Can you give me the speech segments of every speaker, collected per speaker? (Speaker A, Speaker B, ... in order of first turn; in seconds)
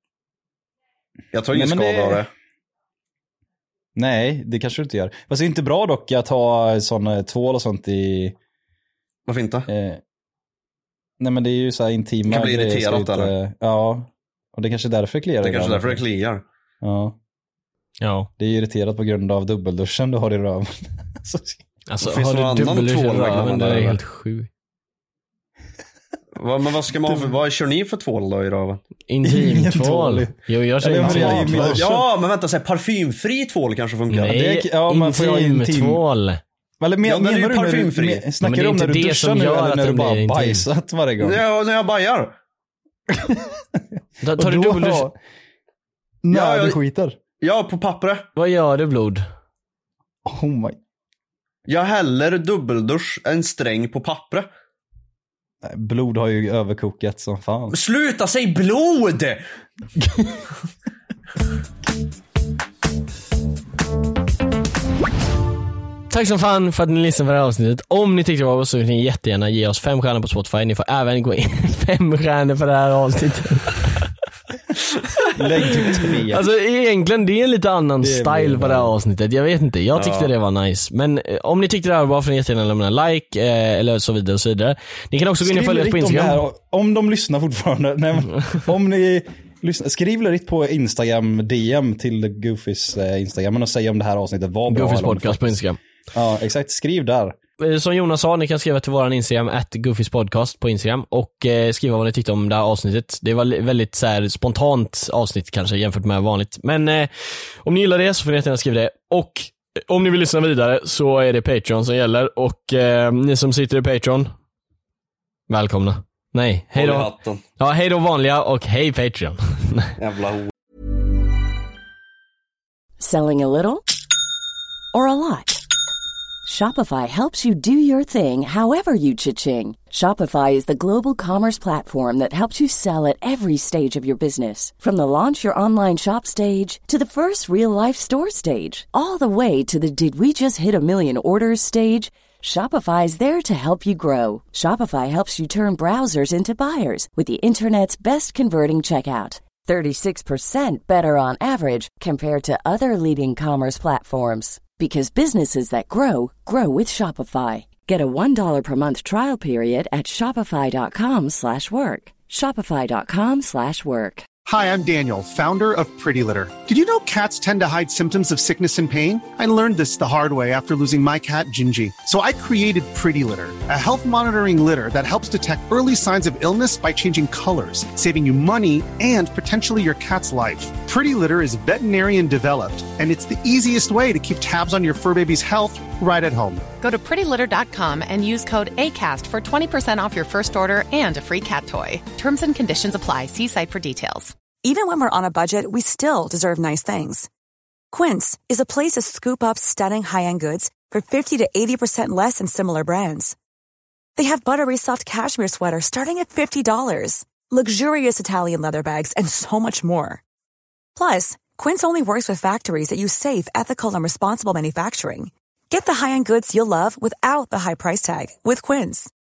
Speaker A: 1.3-2.3, 9.3-9.7, 12.3-13.3, 15.4-16.4, 22.0-24.0, 26.4-28.8, 31.0-34.3, 37.0-38.3, 41.2-42.3, 46.3-46.8, 47.4-48.3, 51.7-54.5, 57.7-59.4, 79.9-80.3, 116.8-117.4, 120.0-120.5
Speaker B: 1.5-2.3, 4.0-8.4, 9.7-10.0, 11.2-16.0, 16.8-17.2, 18.4-21.6, 29.2-32.0, 34.2-36.0, 36.8-41.4, 43.1-45.1, 46.2-47.2, 50.2-50.8, 55.6-57.8, 60.0-60.5, 75.4-76.5, 78.0-79.0, 85.4-95.5, 96.1-97.4
Speaker C: 18.0-18.3, 21.9-24.5, 29.1-31.9, 34.1-36.4, 38.4-40.6, 44.2-45.1, 48.4-49.2, 66.1-74.0, 75.8-86.4, 94.7-95.8, 97.6-114.3, 115.5-119.9
Speaker D: 123.0-123.8, 124.9-125.6, 126.5-164.3
Speaker E: 164.5-186.6
Speaker F: 186.8-194.3
Speaker G: 194.6-197.3, 197.9-203.4, 204.2-210.2, 211.0-219.1